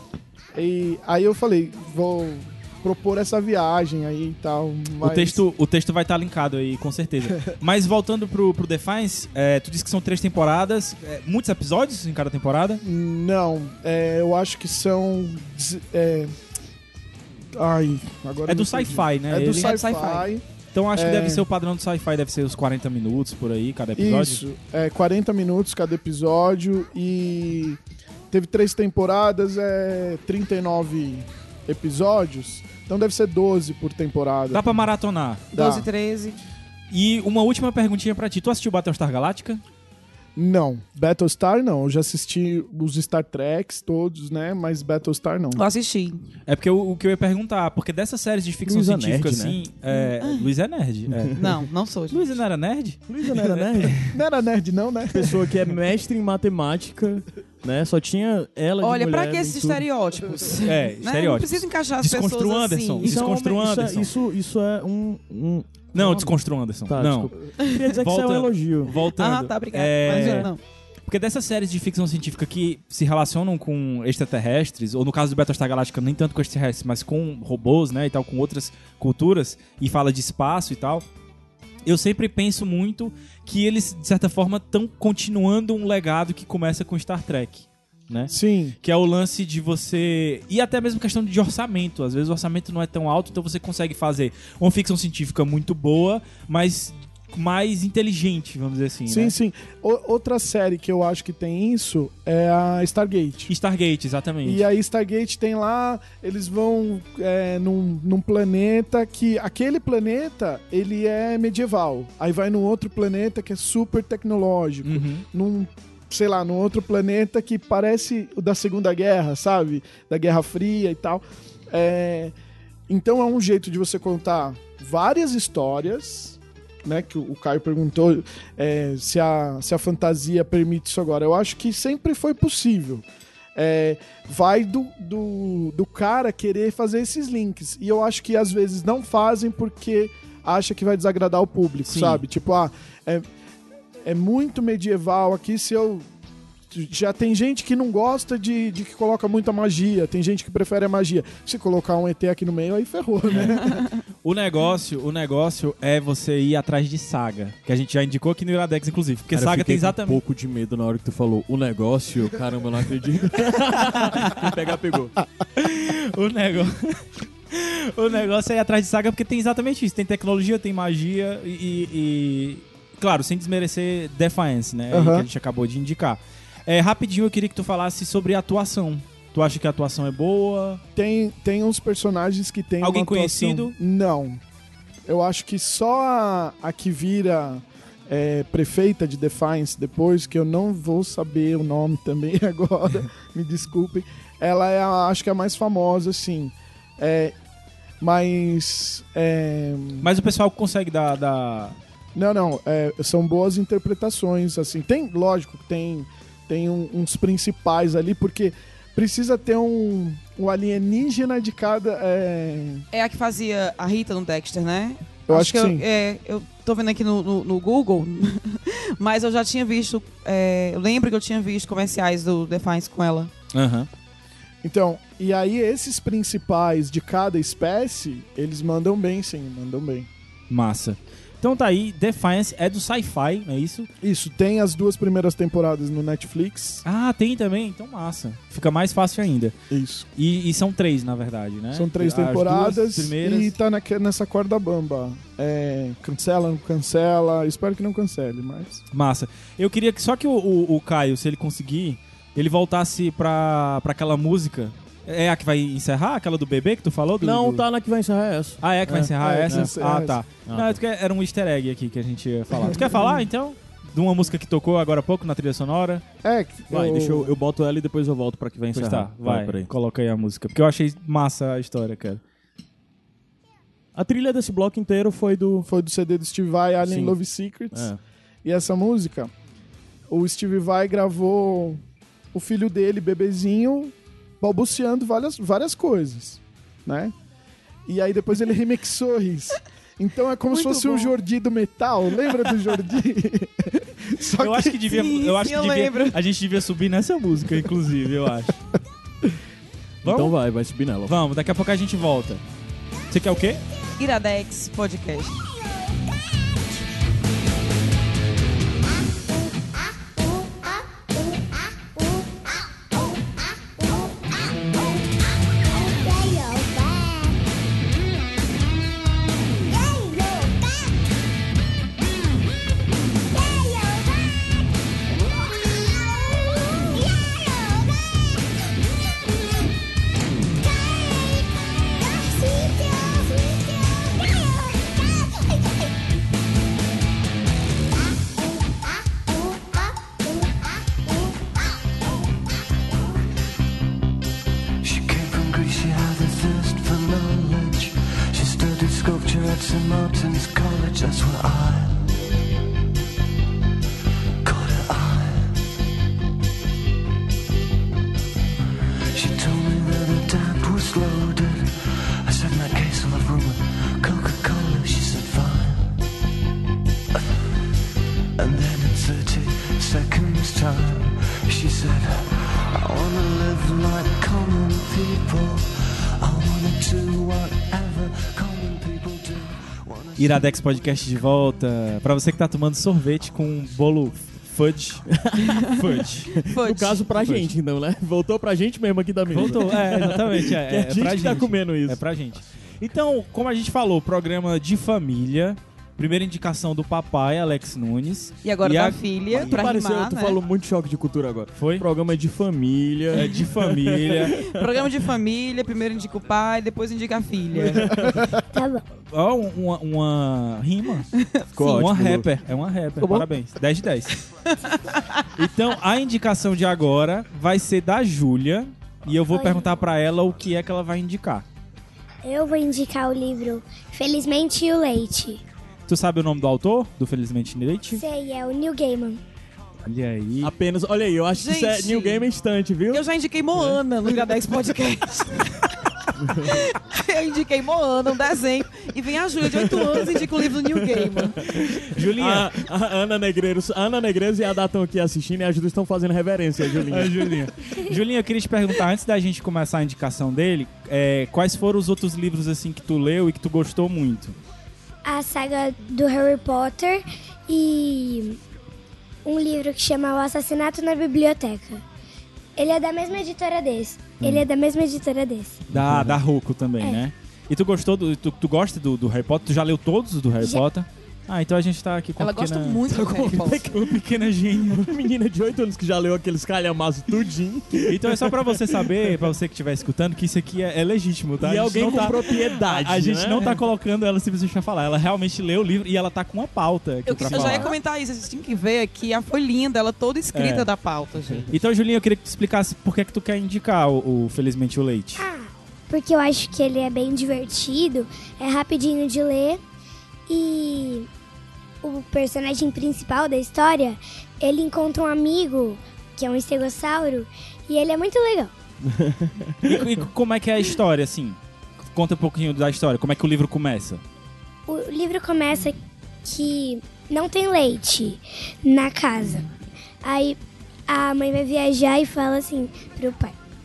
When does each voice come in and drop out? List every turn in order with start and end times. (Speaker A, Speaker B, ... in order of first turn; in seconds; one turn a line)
Speaker A: 0.5-5.4
Speaker B: 5.0-12.8
Speaker A: 12.8-16.3
Speaker A: 17.5-20.4
Speaker B: 18.5-20.1
Speaker C: 19.6-20.2
Speaker B: 20.7-24.4
Speaker A: 20.9-21.4
Speaker A: 23.9-27.8
Speaker A: 28.3-34.6
Speaker B: 34.5-35.5
Speaker C: 35.5-36.4
Speaker A: 35.5-35.9
Speaker B: 36.9-39.6
Speaker A: 40.4-45.6
Speaker C: 45.5-46.2
Speaker B: 46.5-54.1
Speaker D: 48.6-49.6
Speaker C: 49.9-50.5
Speaker C: 51.3-52.2
Speaker D: 53.1-54.0
Speaker A: 54.1-55.5
Speaker D: 55.1-59.8
Speaker C: 58.8-63.2
Speaker B: 60.6-64.1
Speaker D: 63.0-66.3
Speaker B: 65.9-67.3
Speaker D: 66.9-68.9
Speaker B: 67.9-70.5
Speaker C: 69.1-70.6
Speaker D: 70.1-70.5
Speaker B: 71.1-81.0
Speaker B: 81.8-99.3
Speaker A: 88.3-88.8
Speaker A: 99.1-103.5
Speaker B: 103.5-104.6
Speaker A: 104.4-122.3
Speaker B: 114.8-115.2
Speaker A: 122.9-143.2
Speaker B: 141.9-142.2
Speaker A: 144.0-146.1
Speaker A: 146.7-153.8
Speaker B: 154.2-160.2
Speaker D: 159.3-165.2
Speaker B: 163.9-164.4
Speaker B: 165.6-180.8
Speaker A: 174.9-175.3
Speaker A: 180.9-184.4
Speaker B: 182.8-183.7
Speaker A: 185.1-197.3
Speaker A: 198.0-200.1
Speaker B: 200.0-201.8
Speaker A: 202.1-212.8
Speaker C: 212.9-223.3
Speaker A: 215.3-215.8
Speaker B: 223.5-223.9
Speaker A: 224.6-230.1
Speaker B: 230.5-233.9
Speaker A: 234.0-236.8
Speaker B: 236.8-239.5
Speaker A: 239.7-240.1
Speaker B: 240.2-243.5
Speaker A: 241.7-248.8
Speaker B: 248.9-257.6
Speaker D: 257.2-259.1
Speaker B: 258.6-266.0
Speaker A: 259.2-260.2
Speaker D: 260.4-260.8
Speaker A: 262.6-263.0
Speaker A: 266.2-267.3
Speaker D: 266.7-269.7
Speaker B: 268.7-272.2
Speaker D: 273.9-275.7
Speaker A: 275.7-277.9
Speaker D: 276.8-277.1
Speaker D: 277.7-278.0
Speaker A: 278.4-279.3
Speaker A: 280.1-281.8
Speaker A: 282.3-287.1
Speaker A: 287.9-294.9
Speaker C: 290.5-291.1
Speaker B: 294.4-298.6
Speaker C: 294.9-296.2
Speaker B: 300.0-300.3
Speaker D: 300.0-301.1
Speaker B: 301.1-302.4
Speaker B: 303.1-303.6
Speaker C: 304.0-305.4
Speaker E: 316.0-316.7
Speaker E: 332.5-333.2
Speaker F: 344.8-352.1
Speaker F: 354.4-355.6
Speaker F: 359.1-366.0
Speaker F: 368.4-380.6
Speaker B: 380.2-385.2
Speaker D: 385.1-385.8
Speaker C: 385.4-387.1
Speaker B: 385.7-386.3
Speaker D: 386.3-392.0
Speaker B: 387.2-387.5
Speaker B: 389.3-399.7
Speaker C: 398.4-400.4
Speaker D: 399.3-404.6
Speaker B: 401.5-401.8
Speaker B: 403.1-404.4
Speaker C: 404.3-407.9
Speaker D: 407.7-408.2
Speaker A: 407.9-408.4
Speaker E: 408.5-408.8
Speaker B: 409.1-411.1
Speaker C: 411.1-411.5
Speaker D: 411.5-412.3
Speaker B: 411.6-414.2
Speaker C: 413.0-413.2
Speaker C: 414.4-415.2
Speaker B: 415.4-421.4
Speaker E: 419.3-419.7
Speaker E: 422.2-425.4
Speaker B: 425.9-428.0
Speaker E: 427.9-429.2
Speaker B: 429.9-430.5
Speaker D: 430.4-433.0
Speaker C: 431.3-432.3
Speaker C: 432.9-435.8
Speaker D: 436.2-436.5
Speaker C: 436.4-441.4
Speaker D: 439.5-447.2
Speaker B: 441.7-442.5
Speaker B: 446.9-454.3
Speaker E: 455.0-458.4
Speaker E: 459.2-461.8
Speaker E: 462.6-465.6
Speaker D: 465.7-466.2
Speaker B: 465.7-472.9
Speaker C: 472.2-473.7
Speaker D: 472.9-474.1
Speaker B: 473.5-474.9
Speaker D: 474.6-478.9
Speaker B: 477.8-487.8
Speaker D: 481.4-483.6
Speaker C: 487.1-491.5
Speaker D: 487.2-487.6
Speaker B: 490.3-490.7
Speaker B: 491.5-495.2
Speaker E: 495.2-499.6
Speaker E: 500.3-501.1
Speaker E: 501.8-508.5
Speaker D: 508.8-509.7
Speaker B: 509.6-511.4
Speaker B: 511.9-514.0
Speaker E: 514.7-519.5
Speaker E: 520.0-523.4